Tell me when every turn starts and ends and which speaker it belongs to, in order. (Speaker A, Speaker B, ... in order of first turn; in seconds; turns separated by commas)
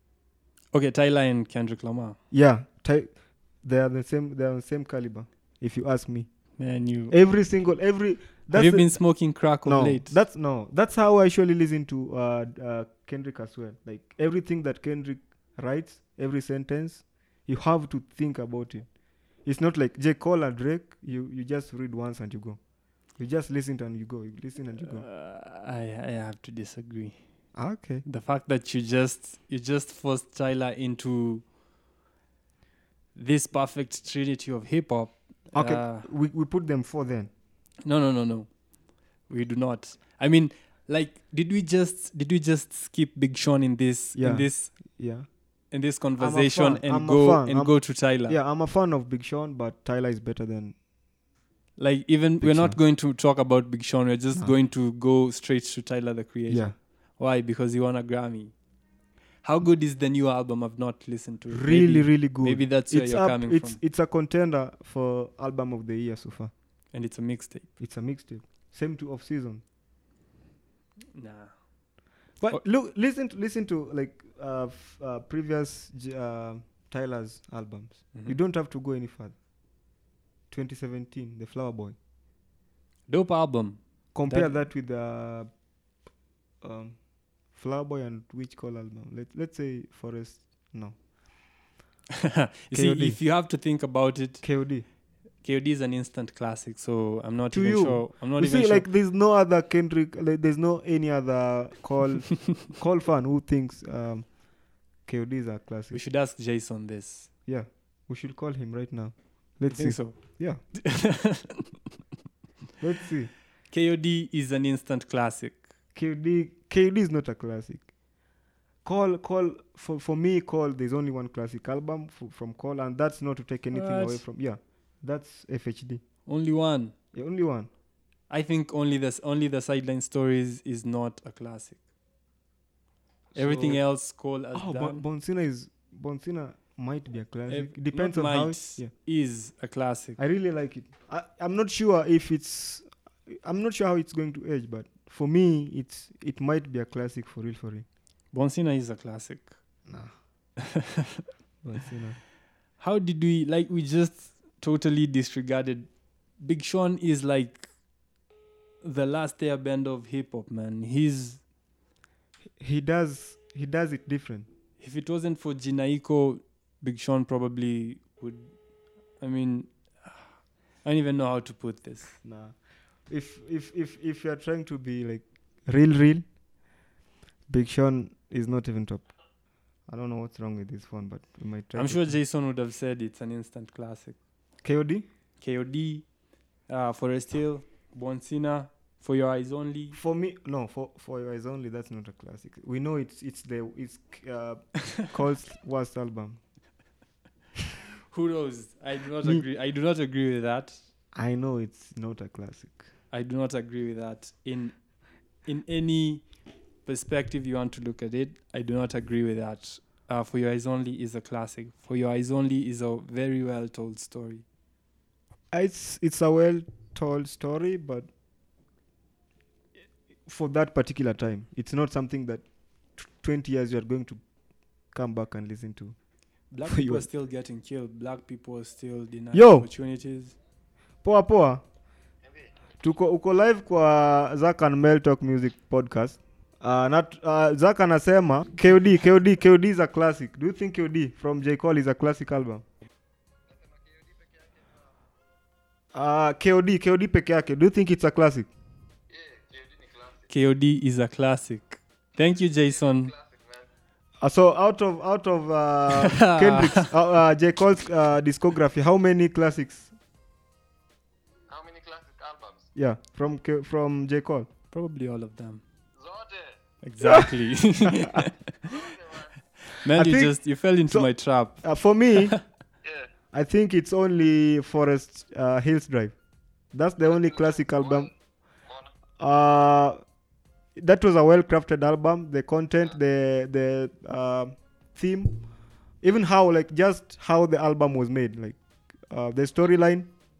Speaker A: 0.7-2.2, Speaker B: 2.3-6.6, Speaker A: 6.6-7.2, Speaker B: 7.1-18.9, Speaker A: 8.5-10.1, Speaker B: 19.4-22.6, Speaker B: 23.1-25.0, Speaker A: 24.8-27.2, Speaker B: 27.5-28.0, Speaker A: 28.0-31.4, Speaker A: 33.1-36.1, Speaker B: 35.5-37.3, Speaker A: 37.8-38.6, Speaker A: 39.2-44.8, Speaker B: 44.1-45.3, Speaker A: 45.7-48.4, Speaker B: 46.2-50.8, Speaker A: 51.8-58.5, Speaker B: 52.4-52.8, Speaker B: 56.5-56.8, Speaker A: 59.4-63.8, Speaker B: 61.5-66.5, Speaker A: 66.9-67.7, Speaker B: 67.8-69.6, Speaker A: 71.1-71.5, Speaker B: 72.4-79.3, Speaker B: 80.5-82.0, Speaker A: 83.1-84.5, Speaker B: 84.1-85.5, Speaker B: 86.6-91.0, Speaker A: 92.4-94.4, Speaker B: 92.7-93.2, Speaker B: 94.4-94.8, Speaker A: 95.4-98.9, Speaker B: 97.5-106.0, Speaker A: 105.9-107.3, Speaker B: 107.5-110.6, Speaker A: 109.7-111.7, Speaker B: 112.8-113.3, Speaker A: 113.7-115.7, Speaker B: 115.9-117.9, Speaker B: 118.8-126.0, Speaker A: 123.7-124.2, Speaker A: 126.2-126.9, Speaker B: 127.1-127.7, Speaker A: 128.3-131.8, Speaker B: 133.3-133.8, Speaker A: 133.3-135.0, Speaker B: 134.5-138.9, Speaker A: 137.5-140.2, Speaker B: 140.2-147.8, Speaker A: 148.3-149.6, Speaker B: 149.8-150.1, Speaker A: 150.6-151.0, Speaker B: 151.6-152.2, Speaker A: 152.8-157.7, Speaker A: 158.8-161.4, Speaker B: 162.6-164.5, Speaker A: 164.8-168.5, Speaker A: 169.2-170.2, Speaker A: 170.8-172.2, Speaker B: 172.2-172.6, Speaker B: 173.1-176.2, Speaker B: 177.5-179.1, Speaker B: 179.9-182.2, Speaker A: 181.7-184.2, Speaker B: 184.6-185.1, Speaker A: 185.4-186.1, Speaker A: 186.7-190.0, Speaker B: 189.9-196.4, Speaker A: 198.1-200.8, Speaker B: 201.1-202.9, Speaker A: 203.1-204.9, Speaker A: 205.4-206.3, Speaker A: 206.8-214.4, Speaker B: 215.5-218.1, Speaker B: 220.2-224.2, Speaker B: 224.9-225.9, Speaker A: 226.5-230.3, Speaker B: 226.6-227.1, Speaker B: 229.3-229.7, Speaker B: 231.0-231.6, Speaker B: 232.8-242.6, Speaker C: 243.5-244.9, Speaker B: 245.9-248.5, Speaker C: 249.1-250.3, Speaker A: 250.3-253.1, Speaker C: 252.7-253.7, Speaker B: 254.2-259.9, Speaker A: 255.9-256.9, Speaker C: 261.5-262.7, Speaker B: 262.7-264.5, Speaker A: 264.7-265.6, Speaker C: 266.0-266.6, Speaker A: 266.8-268.4, Speaker C: 268.6-269.3, Speaker A: 269.6-271.7, Speaker B: 269.9-272.4, Speaker C: 272.8-273.1, Speaker B: 273.3-276.1, Speaker B: 276.7-278.1, Speaker C: 277.0-278.1, Speaker C: 278.6-278.9, Speaker B: 279.2-280.0, Speaker B: 280.8-285.4, Speaker B: 286.0-290.1